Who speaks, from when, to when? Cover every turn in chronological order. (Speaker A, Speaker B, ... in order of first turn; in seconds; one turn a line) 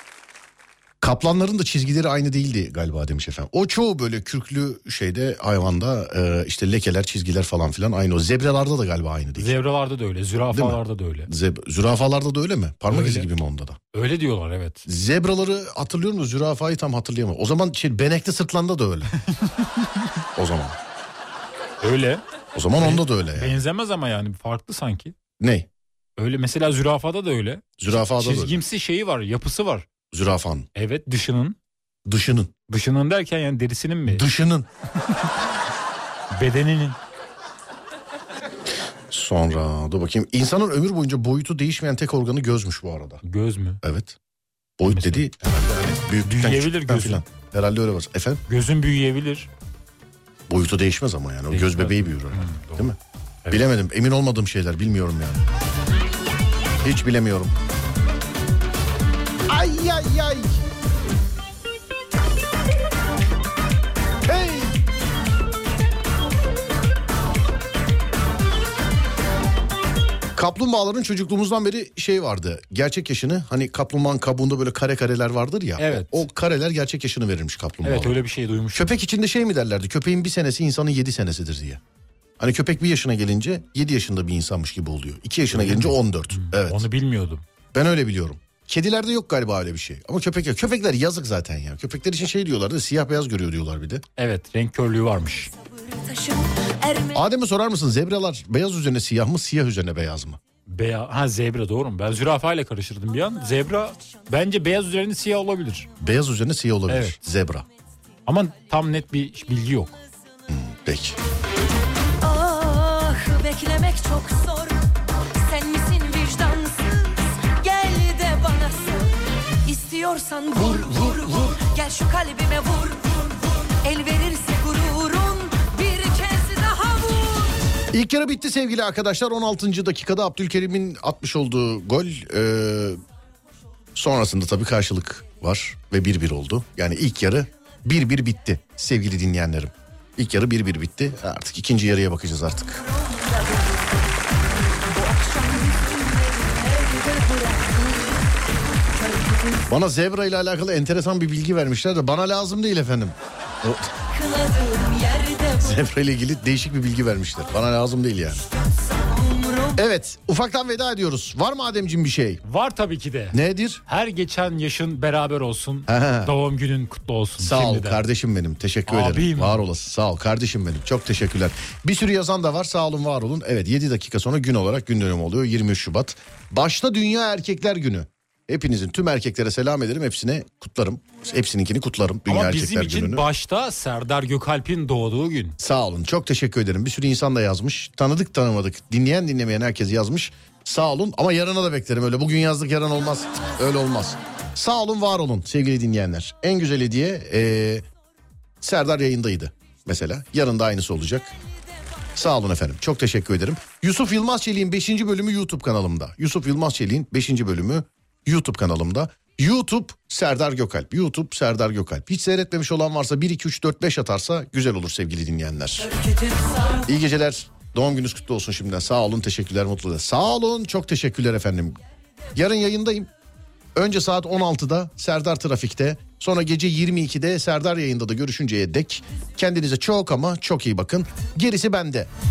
Speaker A: 1.0-9.5
Speaker B: 9.4-11.3
Speaker A: 10.5-13.8
Speaker B: 12.9-13.3
Speaker B: 13.9-14.9
Speaker A: 14.9-19.1
Speaker B: 19.2-20.1
Speaker A: 20.4-20.8
Speaker B: 21.8-22.2
Speaker A: 22.6-23.6
Speaker B: 22.8-25.1
Speaker A: 25.4-25.7
Speaker B: 26.2-29.9
Speaker A: 27.8-28.6
Speaker A: 30.1-30.7
Speaker B: 30.8-31.6
Speaker A: 32.1-32.5
Speaker B: 32.7-34.3
Speaker A: 34.1-34.7
Speaker B: 35.0-35.4
Speaker B: 36.3-37.0
Speaker A: 39.1-43.2
Speaker B: 43.2-43.8
Speaker A: 43.8-44.2
Speaker A: 44.8-48.4
Speaker B: 44.9-45.3
Speaker B: 46.2-47.2
Speaker B: 48.5-49.5
Speaker A: 50.5-53.0
Speaker B: 51.5-52.9
Speaker A: 53.5-55.4
Speaker A: 56.8-57.5
Speaker A: 59.5-60.6
Speaker A: 64.2-64.8
Speaker A: 70.3-78.2
Speaker B: 75.8-76.2
Speaker B: 77.8-79.0
Speaker A: 78.7-81.8
Speaker A: 82.4-86.9
Speaker B: 85.5-87.5
Speaker A: 87.7-94.0
Speaker B: 94.2-95.5
Speaker C: 95.8-97.2
Speaker A: 97.1-100.4
Speaker B: 100.7-105.9
Speaker A: 106.0-107.7
Speaker B: 106.9-107.2
Speaker B: 108.3-110.0
Speaker A: 110.5-111.2
Speaker C: 112.2-114.8
Speaker C: 115.3-127.6
Speaker A: 127.9-133.0
Speaker A: 134.0-142.8
Speaker C: 142.8-144.3
Speaker C: 144.8-148.3
Speaker C: 149.0-149.7
Speaker A: 149.7-153.9
Speaker C: 154.1-155.8
Speaker A: 155.6-158.4
Speaker C: 158.7-159.8
Speaker A: 159.8-162.4
Speaker B: 162.4-168.0
Speaker A: 163.3-163.8
Speaker A: 165.9-166.3
Speaker A: 167.4-183.3
Speaker B: 168.9-169.6
Speaker B: 182.3-185.6
Speaker A: 185.6-197.9
Speaker A: 198.6-201.3
Speaker A: 202.2-215.9
Speaker C: 215.9-216.9
Speaker A: 216.9-221.8
Speaker A: 222.3-223.1
Speaker A: 223.8-232.1